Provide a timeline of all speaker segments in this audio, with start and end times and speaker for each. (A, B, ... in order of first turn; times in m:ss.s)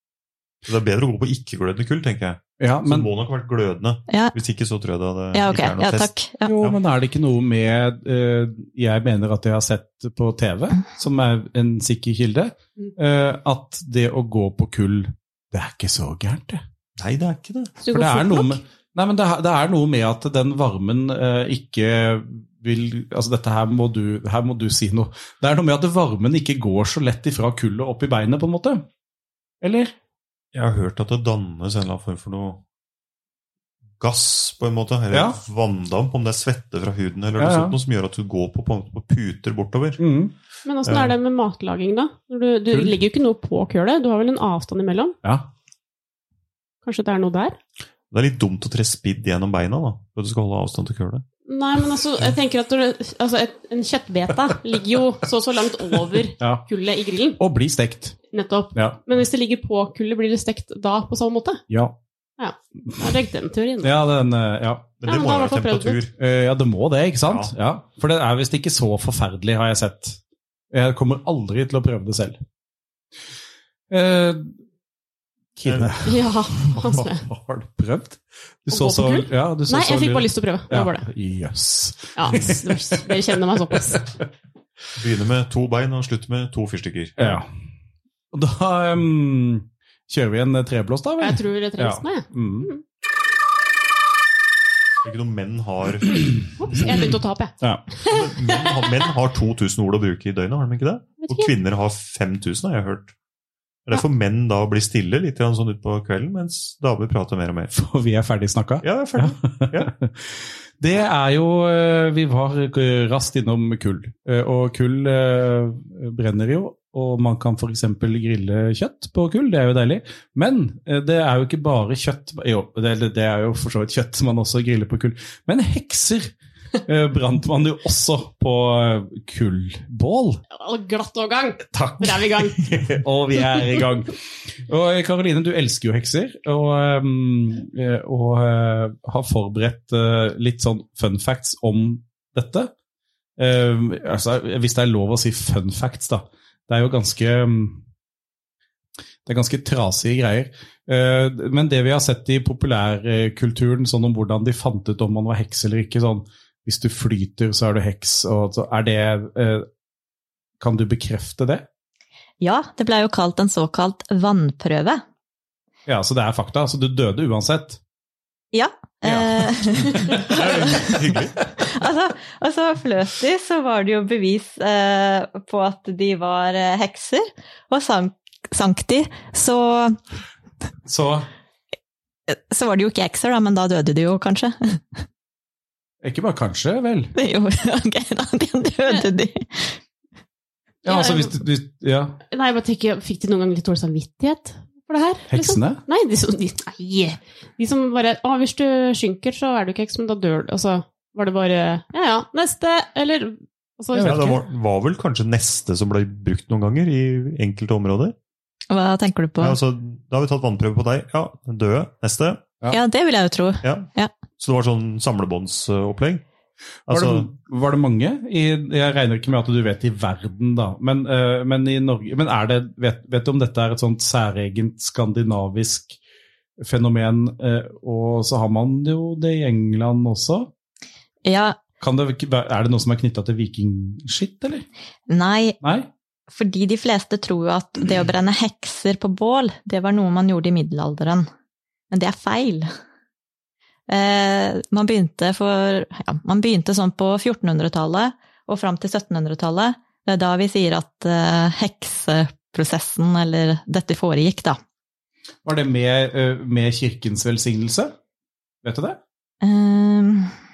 0:00.6-0:06.8 A
0:02.6-0:03.1 B
0:04.1-0:04.3 C
0:05.3-0:06.5 C
0:06.4-0:16.6 B
0:17.0-0:17.8 A
0:17.8-0:18.6 D
0:17.9-0:28.8 B
0:29.6-0:29.9 B
0:30.5-0:32.6 A
0:34.0-0:40.0 A
0:35.1-0:35.4 B
0:37.4-0:37.8 B
0:40.0-0:40.3 B
0:40.6-0:45.2 D
0:40.8-0:41.1 A
0:46.8-0:47.6 D
0:48.1-0:51.2 A
0:51.4-0:57.4 D
0:56.4-0:56.6 B
0:57.4-0:58.2 B
0:58.3-1:01.6 D
0:58.7-0:59.0 B
1:02.4-1:03.9 D
1:03.8-1:04.9 B
1:05.0-1:06.1 A
1:05.0-1:06.0 D
1:06.2-1:10.2 B
1:07.3-1:07.5 A
1:10.7-1:12.4 B
1:13.9-1:14.6 B
1:15.6-1:23.4 B
1:15.6-1:16.0 A
1:16.0-1:17.2 D
1:18.7-1:21.1 D
1:22.2-1:24.1 D
1:25.0-1:27.4 A
1:27.2-1:27.5 B
1:28.3-1:32.7 B
1:31.2-1:32.8 D
1:35.0-1:37.0 A
1:36.6-1:38.9 D
1:38.0-1:43.1 A
1:41.2-1:41.5 D
1:43.8-1:47.7 A
1:47.7-2:06.3 B
1:48.8-1:49.9 A
2:06.8-2:10.4 B
2:10.5-2:12.6 D
2:11.7-2:22.7 B
2:23.4-2:27.8 B
2:29.2-2:39.6 B
2:40.6-2:41.6 B
2:42.4-2:45.0 C
2:45.8-2:47.8 B
2:48.5-2:51.0 C
2:49.0-2:50.4 B
2:50.2-2:51.4 A
2:51.6-3:00.0 C
3:00.8-3:01.3 B
3:02.3-3:05.0 C
3:06.0-3:07.1 B
3:07.1-3:09.8 C
3:10.8-3:12.2 B
3:10.8-3:11.3 D
3:12.3-3:24.4 D
3:15.3-3:15.8 B
3:23.9-3:24.3 B
3:24.0-3:28.1 A
3:28.7-3:29.6 C
3:29.4-3:32.4 A
3:32.7-3:34.1 C
3:33.6-3:36.2 A
3:36.9-3:37.3 A
3:36.9-3:46.0 B
3:46.6-3:50.5 B
3:51.2-3:51.6 C
3:51.8-3:54.6 B
3:55.1-3:55.6 C
3:55.6-3:55.9 B
3:56.3-4:01.3 C
4:01.9-4:02.7 C
4:03.9-4:14.6 C
4:15.4-4:17.9 B
4:18.6-4:19.0 B
4:19.4-4:20.3 C